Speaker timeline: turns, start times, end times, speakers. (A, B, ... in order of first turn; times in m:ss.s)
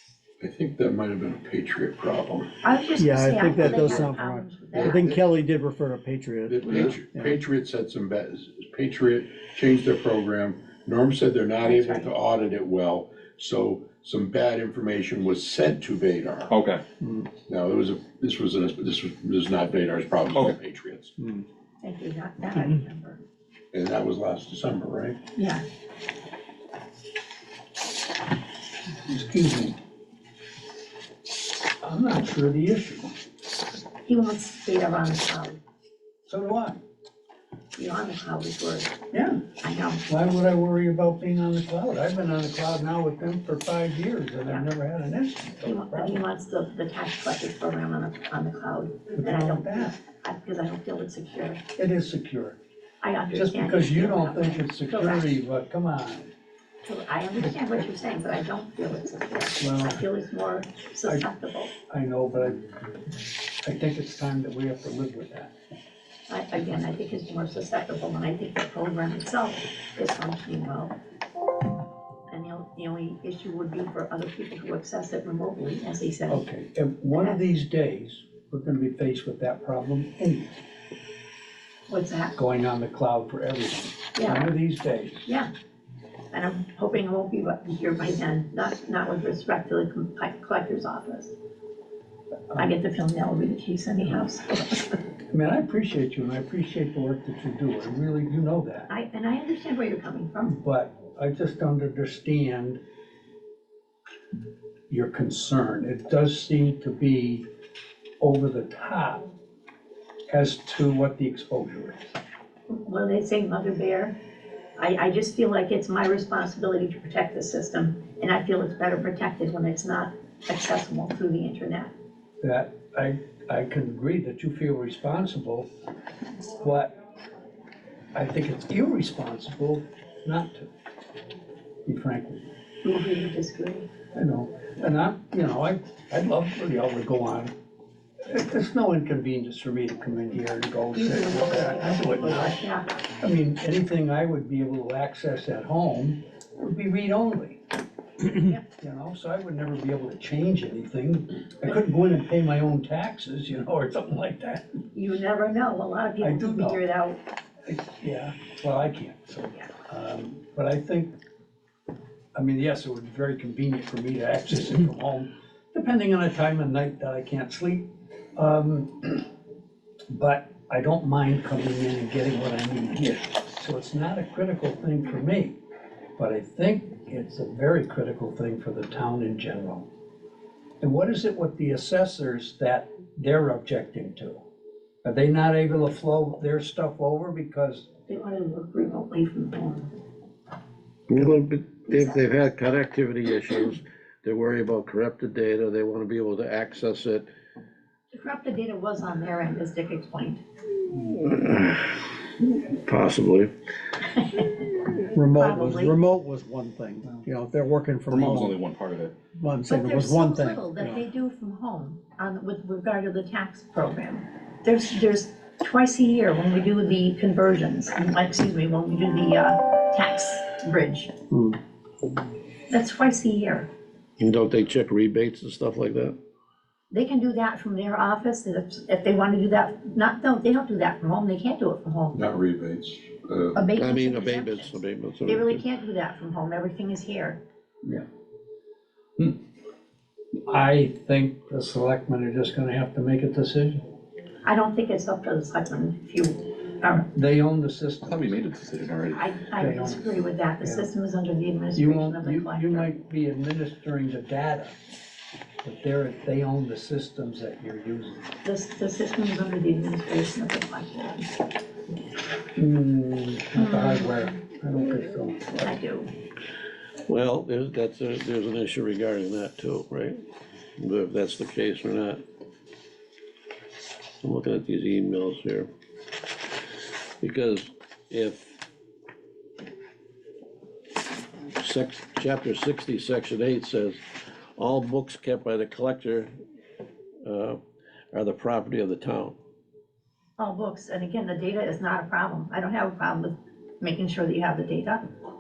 0:00.4-0:02.5 A
0:02.6-0:05.2 B
0:03.0-0:07.3 C
0:04.7-0:05.2 A
0:06.5-0:16.5 A
0:11.6-0:12.1 B
0:16.5-0:16.8 D
0:17.5-0:21.1 A
0:21.8-0:23.2 B
0:23.7-0:25.2 A
0:25.4-0:25.6 B
0:29.0-0:29.8 E
0:31.8-0:33.1 E
0:34.0-0:35.6 B
0:36.3-0:36.8 E
0:37.8-0:40.0 B
0:39.1-0:39.4 E
0:40.1-0:46.2 E
0:45.6-0:51.6 B
0:49.2-0:50.0 E
0:51.8-0:52.6 E
0:53.0-0:55.3 B
0:53.3-0:56.3 E
0:56.8-1:01.7 B
0:59.6-1:00.0 E
1:01.9-1:02.6 E
1:03.6-1:05.5 E
1:06.3-1:11.0 B
1:12.3-1:16.4 B
1:16.3-1:20.6 E
1:17.1-1:17.4 B
1:21.9-1:22.3 B
1:22.4-1:25.3 E
1:24.1-1:24.5 B
1:26.3-1:31.3 B
1:32.5-1:35.0 B
1:35.3-1:38.9 E
1:38.9-1:40.6 B
1:40.5-1:42.8 E
1:44.9-1:47.4 E
1:48.2-1:49.2 E
1:50.3-1:52.1 E
1:52.7-1:54.2 B
1:54.8-2:01.9 B
2:02.4-2:05.7 E
2:06.6-2:06.9 E
2:08.1-2:10.7 E
2:11.8-2:12.5 E
2:12.8-2:13.9 B
2:14.1-2:17.5 E
2:18.3-2:22.6 E
2:20.9-2:22.9 B
2:23.2-2:27.6 E
2:28.5-2:34.8 E
2:34.9-2:37.2 B
2:36.2-2:36.8 E
2:37.6-2:41.2 E
2:42.3-2:49.3 E
2:50.1-2:55.6 E
2:56.2-2:59.9 E
3:00.8-3:04.4 E
3:05.0-3:07.9 E
3:08.1-3:09.9 B
3:11.1-3:17.3 F
3:11.9-3:12.4 B
3:18.1-3:20.4 B
3:21.0-3:23.5 F
3:24.2-3:24.5 B
3:25.2-3:28.6 C
3:25.3-3:26.0 B
3:27.0-3:27.3 E
3:28.1-3:29.2 D
3:29.4-3:30.7 C
3:29.7-3:41.1 B
3:42.7-3:43.7 B
3:44.2-3:46.2 F
3:46.9-3:52.2 B
3:52.1-3:53.6 A
3:53.6-3:57.4 B
3:53.7-3:55.6 F
4:00.5-4:03.8 E
4:04.4-4:07.1 B
4:07.1-4:08.2 E
4:08.0-4:09.2 D
4:09.1-4:12.9 B
4:09.6-4:10.0 E
4:10.6-4:10.9 E
4:11.8-4:14.7 E
4:15.6-4:18.2 E
4:18.4-4:21.3 B
4:22.6-4:25.8 E
4:23.6-4:24.3 B
4:25.6-4:26.1 B
4:27.1-4:30.2 F
4:30.8-4:32.2 F
4:34.2-4:35.7 F
4:37.2-4:38.5 F
4:41.6-4:44.0 F
4:44.6-4:46.3 F
4:47.2-4:47.6 F
4:48.1-4:49.4 F
4:50.4-4:55.0 B